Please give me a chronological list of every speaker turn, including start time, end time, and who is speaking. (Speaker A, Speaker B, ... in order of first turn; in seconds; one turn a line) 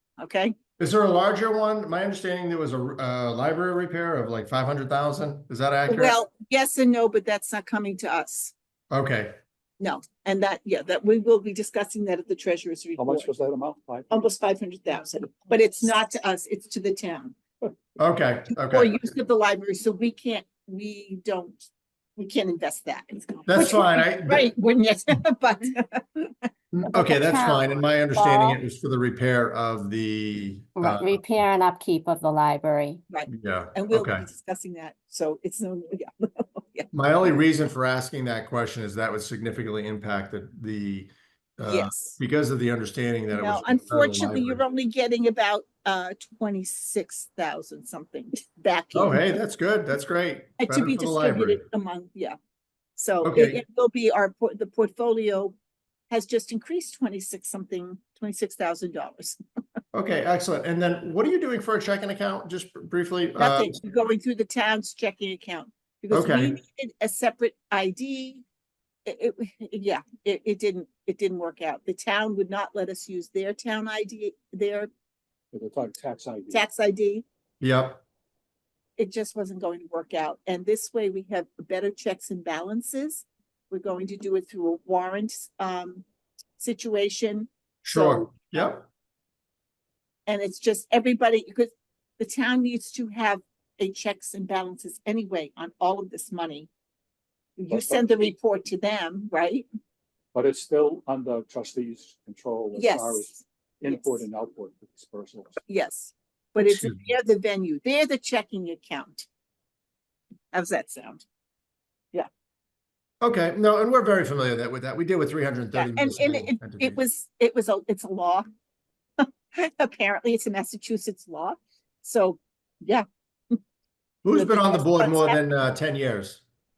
Speaker A: 0.2-0.6
Speaker B: 0.8-6.2
Speaker A: 5.9-8.5
Speaker B: 8.9-9.3
Speaker A: 9.8-13.3
Speaker C: 13.0-14.2
Speaker A: 14.1-17.4
Speaker B: 18.0-18.9
Speaker A: 18.7-21.6
Speaker A: 22.2-26.5
Speaker B: 23.4-24.5
Speaker B: 26.7-31.2
Speaker D: 26.9-28.6
Speaker D: 30.8-33.0
Speaker A: 33.1-36.9
Speaker B: 33.3-34.3
Speaker B: 36.9-44.6
Speaker A: 41.6-42.1
Speaker A: 43.3-49.4
Speaker B: 48.9-51.6
Speaker A: 50.6-52.4
Speaker A: 53.0-55.5
Speaker B: 53.2-53.6
Speaker A: 56.1-59.4
Speaker B: 59.9-63.7
Speaker A: 63.4-68.4
Speaker B: 66.1-66.6
Speaker A: 69.0-74.9
Speaker C: 75.5-76.7
Speaker A: 76.5-77.2
Speaker B: 77.6-78.0
Speaker A: 79.0-86.0
Speaker A: 86.6-88.6
Speaker B: 87.8-88.8
Speaker A: 90.3-96.7
Speaker A: 97.6-99.7
Speaker C: 97.7-98.3
Speaker C: 100.3-105.6
Speaker A: 102.8-104.2
Speaker A: 105.7-109.3
Speaker B: 106.6-107.0
Speaker A: 110.5-111.2
Speaker B: 113.2-117.0
Speaker A: 115.7-118.5
Speaker A: 119.2-123.6
Speaker B: 124.2-126.4
Speaker A: 124.3-125.4